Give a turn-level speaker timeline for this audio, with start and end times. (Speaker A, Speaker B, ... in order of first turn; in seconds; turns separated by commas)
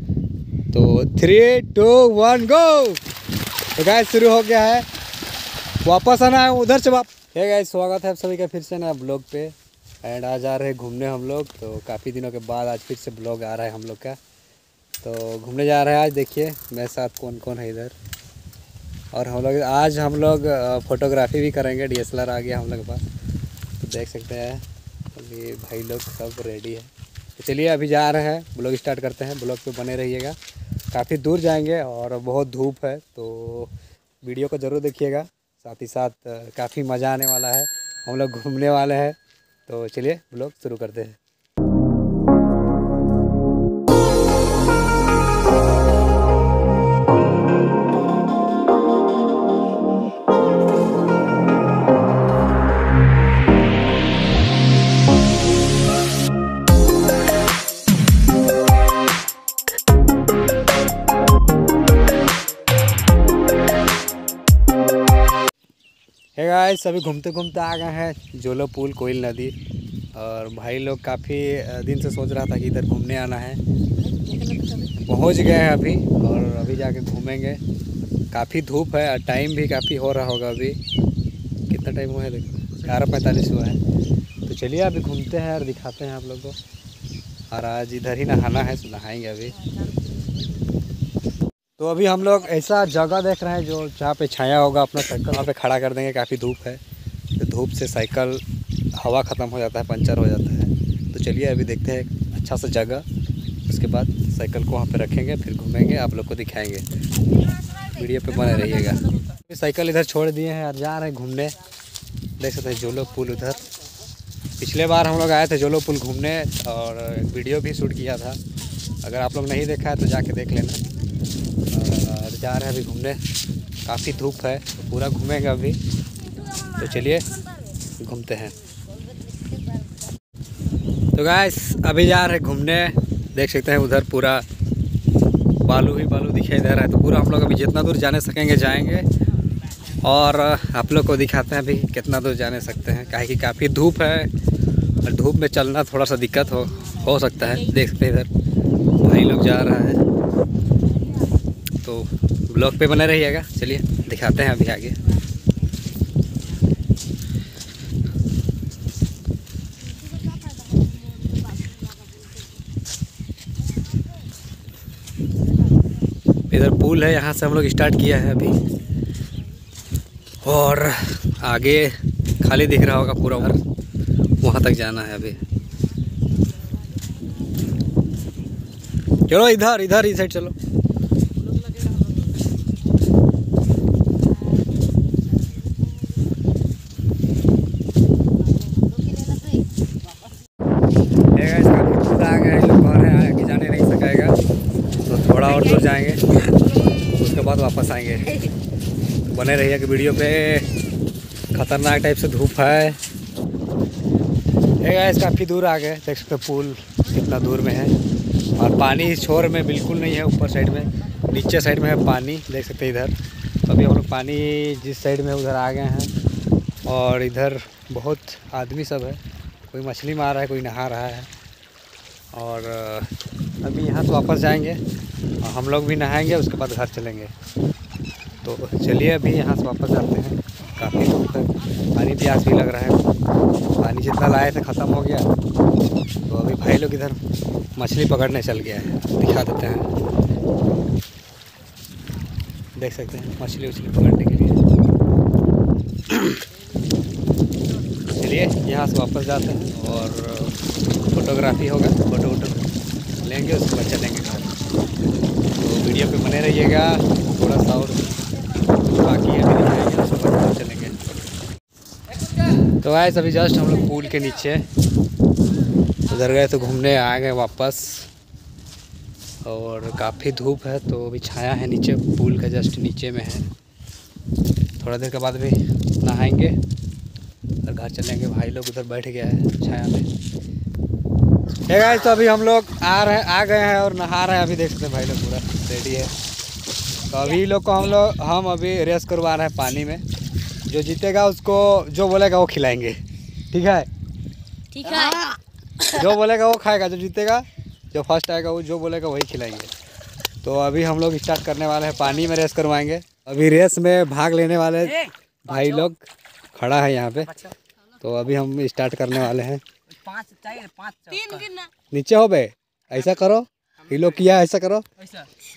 Speaker A: 0.7-3.0, Speaker A: 3.8-4.9, Speaker A: 5.8-14.2, Speaker A: 15.0-17.9, Speaker A: 19.1-23.0, Speaker A: 23.8-30.4, Speaker A: 30.9-41.2, Speaker A: 66.3-69.5, Speaker A: 70.1-73.6, Speaker B: 74.1-74.9, Speaker A: 74.9-77.6, Speaker A: 78.3-80.8, Speaker A: 81.7-83.8, Speaker A: 84.5-86.5, Speaker A: 87.5-89.6, Speaker B: 89.7-90.4, Speaker A: 91.8-96.8, Speaker A: 97.4-98.4, Speaker A: 99.0-103.0, Speaker A: 103.7-106.8, Speaker A: 107.8-111.5, Speaker A: 112.4-113.6, Speaker A: 114.6-118.4, Speaker A: 119.0-120.8, Speaker A: 121.7-123.2, Speaker A: 123.8-125.8, Speaker A: 126.7-127.4, Speaker A: 128.0-128.6, Speaker A: 131.2-134.4, Speaker A: 135.7-139.1, Speaker A: 140.0-144.3, Speaker A: 145.0-148.3, Speaker A: 149.0-150.1, Speaker A: 151.8-155.0, Speaker B: 160.1-162.4, Speaker A: 166.5-168.6, Speaker A: 170.4-173.6, Speaker A: 174.4-175.4, Speaker A: 179.3-180.6, Speaker B: 181.7-182.1, Speaker B: 188.9-189.6, Speaker A: 191.3-194.4, Speaker A: 195.1-196.5, Speaker A: 197.0-198.5, Speaker A: 199.3-200.7, Speaker A: 201.5-203.0, Speaker A: 204.8-207.9, Speaker A: 208.6-213.1, Speaker A: 213.7-216.1, Speaker A: 216.9-221.3, Speaker A: 222.3-223.1, Speaker A: 223.6-224.8, Speaker A: 225.4-227.3, Speaker A: 228.4-233.0, Speaker A: 233.8-235.3, Speaker A: 236.2-237.2, Speaker A: 237.8-239.9, Speaker A: 242.8-244.6, Speaker A: 246.1-246.4, Speaker A: 248.1-250.6, Speaker A: 251.1-252.6, Speaker A: 253.2-254.6, Speaker A: 255.6-258.0, Speaker A: 258.8-261.0, Speaker A: 262.8-264.6, Speaker A: 266.1-268.1, Speaker A: 269.4-273.5, Speaker A: 274.8-276.6, Speaker A: 277.6-280.1, Speaker A: 281.7-286.1, Speaker A: 287.1-290.0, Speaker A: 290.7-293.0, Speaker A: 293.5-293.9, Speaker B: 294.7-295.4, Speaker A: 295.8-299.7, Speaker A: 300.4-309.6, Speaker B: 310.2-311.7, Speaker A: 311.9-314.9